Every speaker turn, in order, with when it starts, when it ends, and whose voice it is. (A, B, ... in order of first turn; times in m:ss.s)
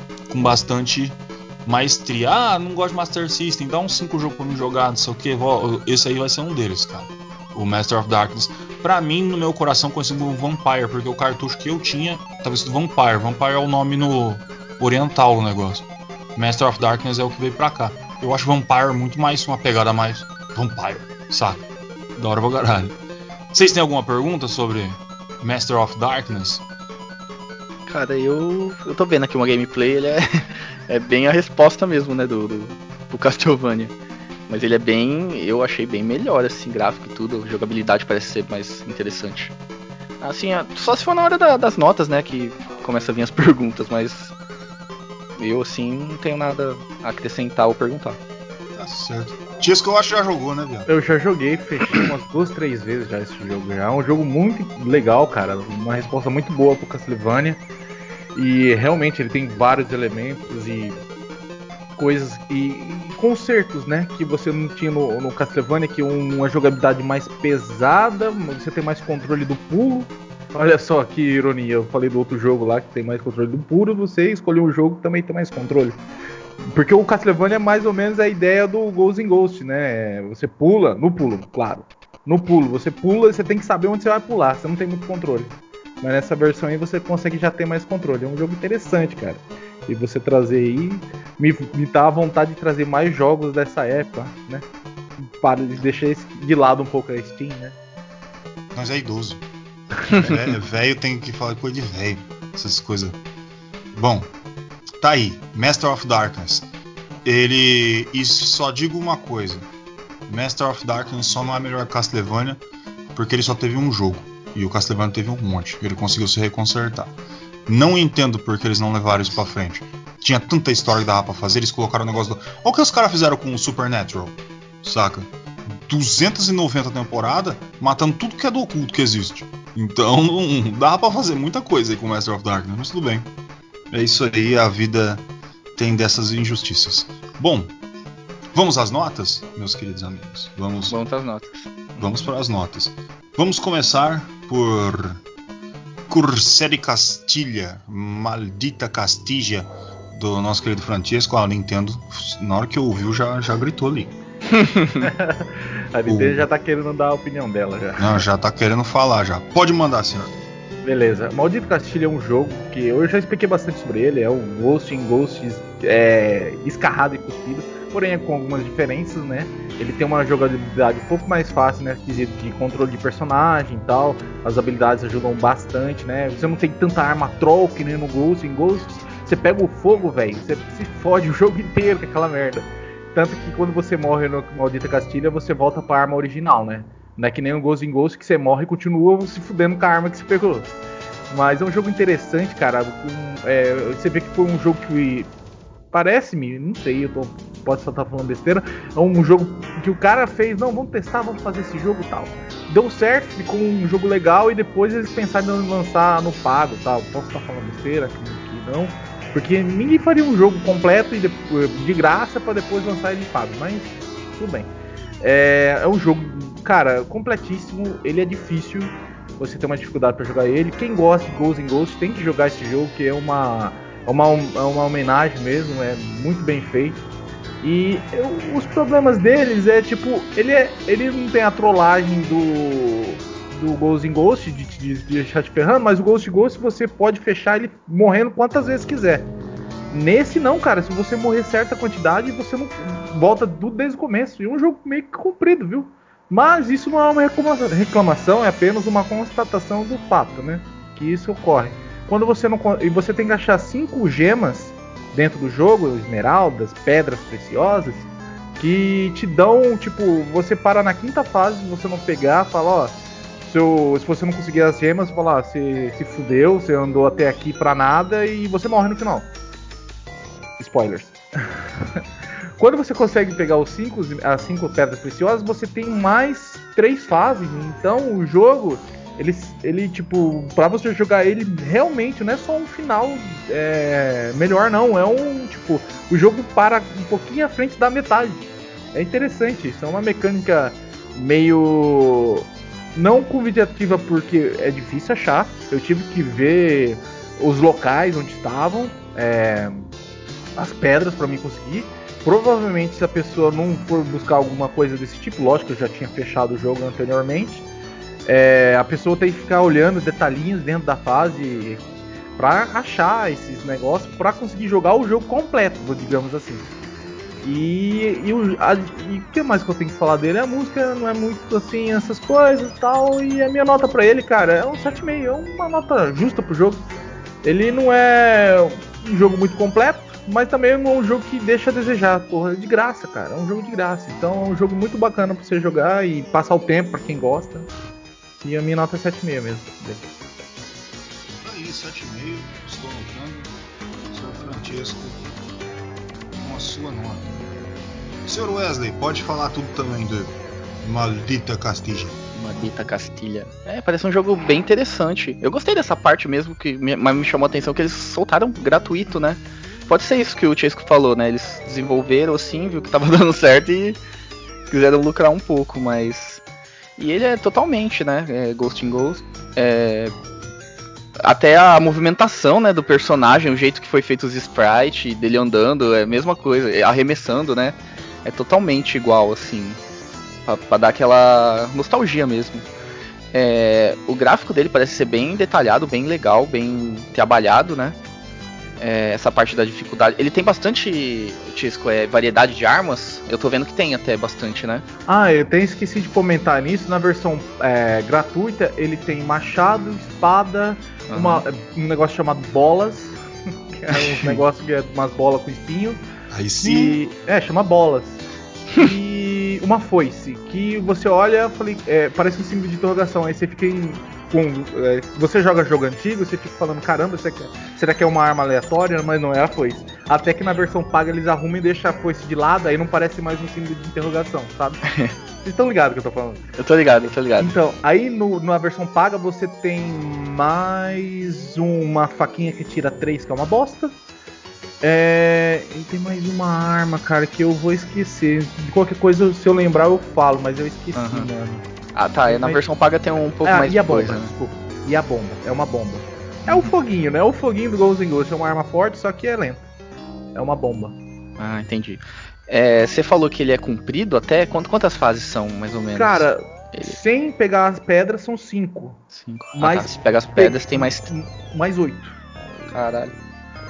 0:00.3-0:21.6 A
0:22.1-0:23.0 A
0:23.5-0:26.6 A
0:27.9-0:33.9 B
0:34.5-0:39.5 B
0:40.2-0:44.3 B
0:45.4-0:48.2 B
0:48.7-0:50.9 A
0:50.9-0:57.6 C
0:58.4-1:01.0 C
1:02.0-1:16.0 C
1:16.6-1:34.6 C
1:35.2-1:37.8 C
1:38.7-1:39.4 A
1:40.1-1:43.2 A
1:43.9-1:44.3 A
1:45.0-1:46.7 A
1:47.2-1:49.7 A
1:50.3-1:52.6 A
1:53.1-1:57.1 A
1:57.7-2:13.3 A
2:13.9-2:15.2 A
2:15.8-2:17.7 A
2:18.5-2:21.0 A
2:20.9-2:22.2 B
2:22.0-2:25.2 A
2:26.1-2:34.1 A
2:34.5-2:35.1 B
2:35.0-2:38.2 C
2:36.1-2:36.4 A
2:38.0-2:40.4 A
2:40.8-3:10.7 C
3:11.3-3:15.3 C
3:15.9-3:47.0 C
3:47.6-3:59.3 C
3:59.9-4:29.3 C
4:30.6-4:32.0 C
4:32.6-4:59.9 C
5:00.6-5:07.6 C
5:08.2-5:11.8 C
5:12.4-5:16.6 C
5:17.4-5:26.8 C
5:27.4-5:37.7 C
5:38.4-5:40.0 C
5:41.4-5:43.5 A
5:44.1-5:45.2 A
5:46.4-5:47.3 A
5:48.2-5:52.2 A
5:52.3-6:04.0 B
6:04.7-6:06.4 B
6:07.0-6:10.1 B
6:11.2-6:19.8 B
6:20.5-6:22.6 B
6:23.3-6:28.0 B
6:28.8-6:34.8 B
6:35.1-6:43.2 C
6:41.1-6:41.4 B
6:43.7-6:46.0 C
6:43.9-6:44.4 B
6:46.3-6:47.0 A
6:46.6-7:04.8 C
7:04.9-7:05.1 B
7:05.4-7:06.4 C
7:06.6-7:07.6 B
7:07.4-7:13.9 C
7:14.8-7:21.6 C
7:20.9-7:21.3 B
7:21.9-7:24.3 B
7:22.3-7:22.6 C
7:23.4-7:29.7 C
7:26.5-7:26.7 B
7:30.4-7:31.0 C
7:31.4-7:37.0 B
7:35.9-7:39.0 C
7:39.1-7:41.1 B
7:39.5-7:42.2 C
7:42.7-7:43.2 B